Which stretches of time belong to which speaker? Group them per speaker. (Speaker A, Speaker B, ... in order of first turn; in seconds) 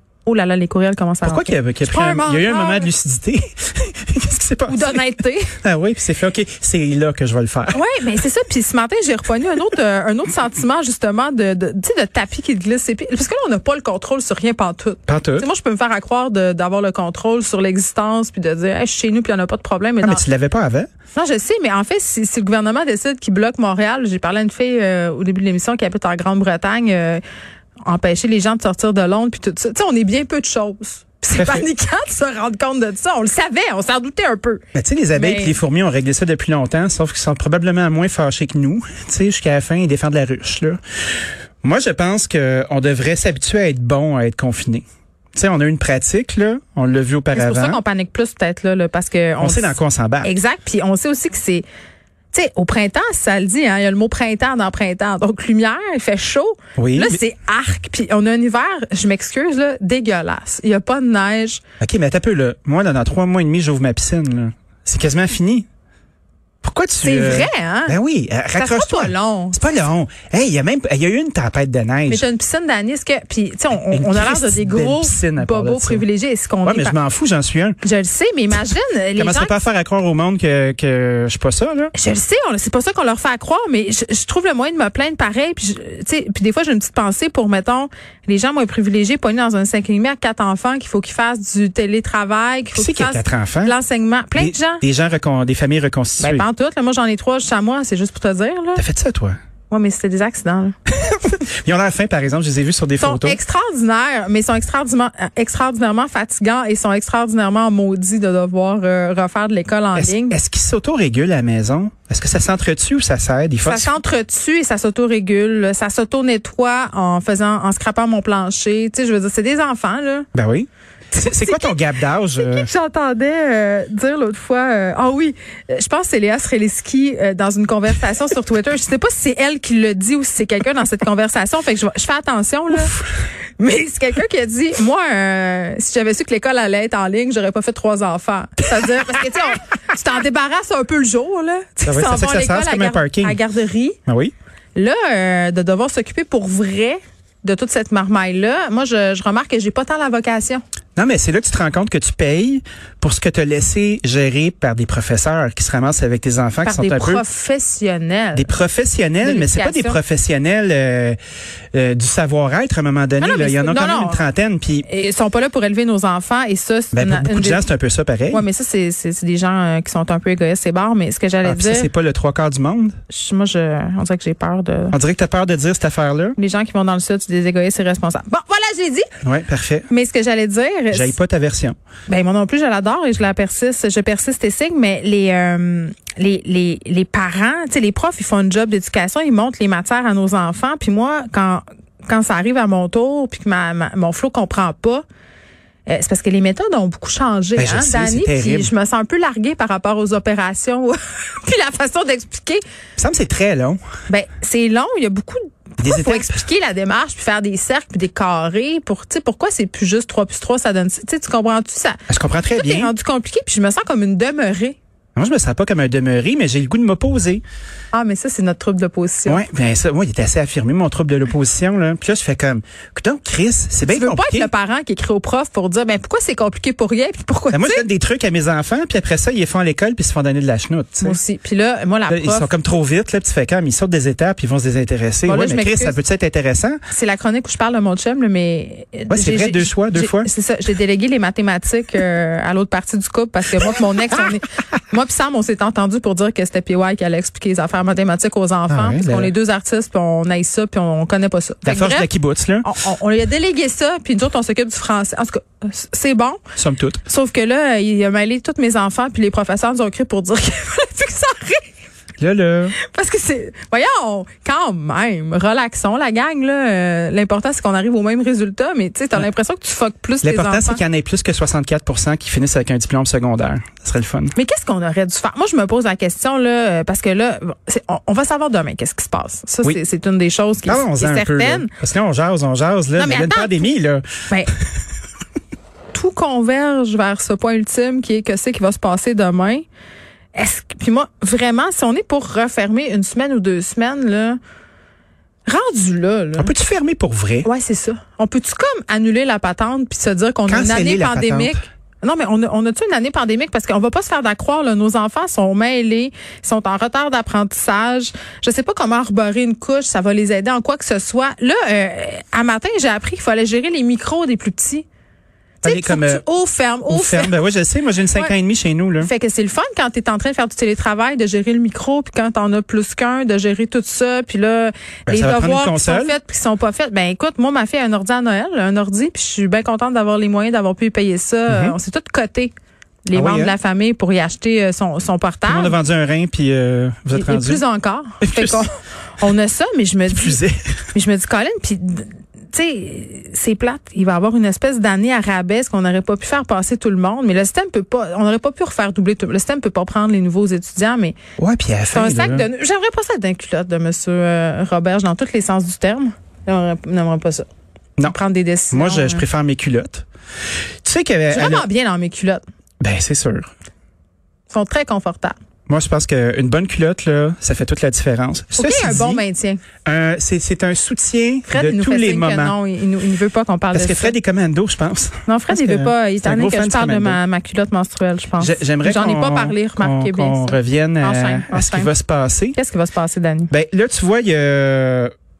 Speaker A: 0.2-2.9, 4.7-5.5, 7.7-20.2, 21.1-27.2, 27.8-35.6, 47.3-51.6, 52.3-61.6, 67.0-68.0, 68.5-69.6, 72.1-77.0, 77.8-79.5, 81.9-94.8, 96.2-98.8, 99.7-100.8, 103.0-110.4, 113.6-120.3, 121.2-121.8, 122.3-133.0, 133.6-144.0, 144.7-150.6, 156.6-158.5, 159.2-160.0, 163.2-164.2, 164.8-167.6, 168.3-171.9, 173.1-174.9, 176.3-179.1, 179.9-181.2, 182.1-195.0, 195.9-202.6, 204.1-212.0, 212.5-214.8, 217.9-219.4, 223.8-227.8, 231.0-232.5, 235.2-236.0, 236.9-252.1, 252.6-256.4, 257.1-261.7, 262.8-270.8, 274.3-281.7, 282.9-283.7, 285.9-289.6, 290.3-294.4, 295.4-296.5, 297.4-314.9, 315.6-317.4, 319.0-332.5, 333.0-335.8, 337.1-340.4, 340.9-351.2, 351.9-357.4, 358.0-359.2, 361.3-362.4, 364.5-365.4, 368.5-369.6, 371.5-374.1, 375.3-381.9, 382.5-383.5
Speaker B: 1.2-5.0, 5.6-7.8, 15.1-15.5, 20.0-20.9, 31.3-31.7, 34.7-40.8, 41.6-47.8, 49.4-50.3, 56.8-57.2, 61.8-65.7, 66.6-72.2, 73.9-76.0, 76.6-77.8, 79.2-81.9, 92.7-93.8, 94.3-96.5, 98.7-99.4, 100.9-103.4, 109.9-114.0, 120.3-122.7, 141.8-143.4, 144.1-144.3, 150.9-157.2, 158.3-161.2, 161.7-164.8, 166.9-168.4, 171.4-173.0, 174.9-176.3, 179.2-179.9, 180.9-181.8, 197.6-198.7, 203.0-203.8, 205.8-206.4, 212.1-212.9, 215.2-217.4, 219.2-224.5, 227.5-231.2, 232.1-236.8, 239.1-240.3, 248.7-249.3, 251.7-252.7, 256.6-257.0, 262.2-262.7, 270.2-274.3, 280.7-284.1, 296.4-297.5, 300.5-301.6, 315.6-316.2, 316.9-319.1, 325.1-326.1, 331.5-331.8, 333.1-333.6, 335.4-337.6, 338.2-338.6, 340.1-340.7, 351.4-352.5, 358.7-360.0, 360.8-361.7, 362.8-363.5, 365.7-369.2, 369.8-372.6, 373.7-377.2, 378.4-382.6, 383.5-385.1